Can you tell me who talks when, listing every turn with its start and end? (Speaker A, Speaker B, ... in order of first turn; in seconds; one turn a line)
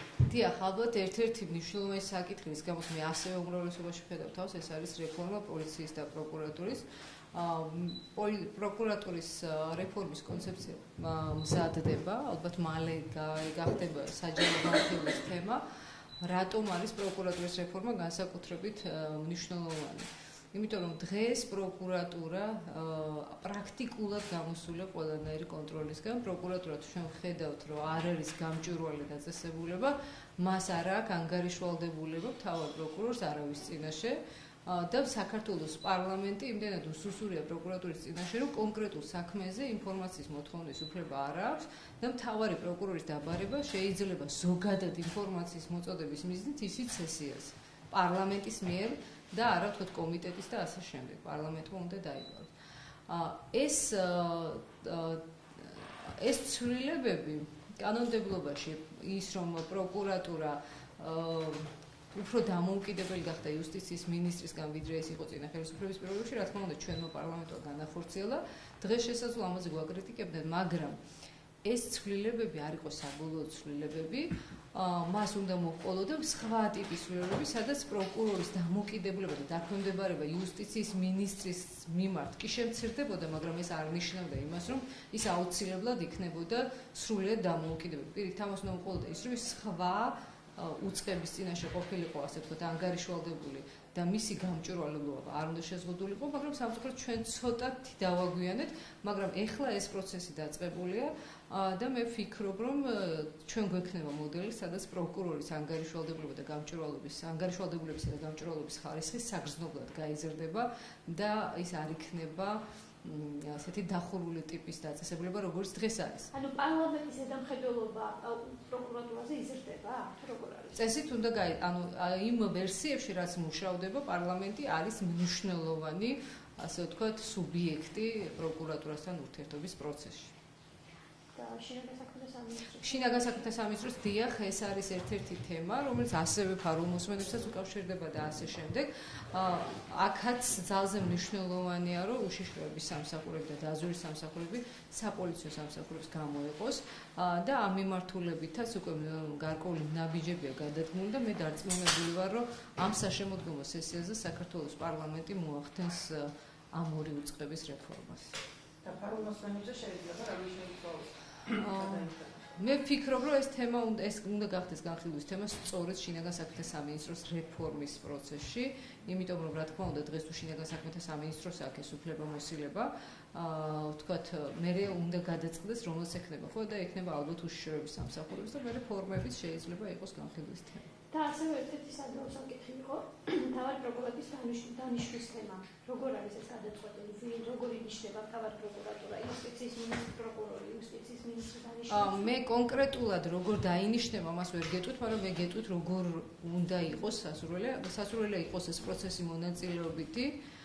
Speaker A: 0.2-15.6
Speaker A: 16.2-52.5
Speaker A: 53.1-71.0
Speaker A: 71.6-116.3
Speaker B: 116.3-120.8
Speaker A: 120.7-130.3
Speaker B: 131.3-133.4
Speaker A: 132.8-158.4
Speaker C: 158.8-162.6
Speaker A: 161.6-180.8
Speaker B: 181.1-192.3
Speaker A: 191.9-200.4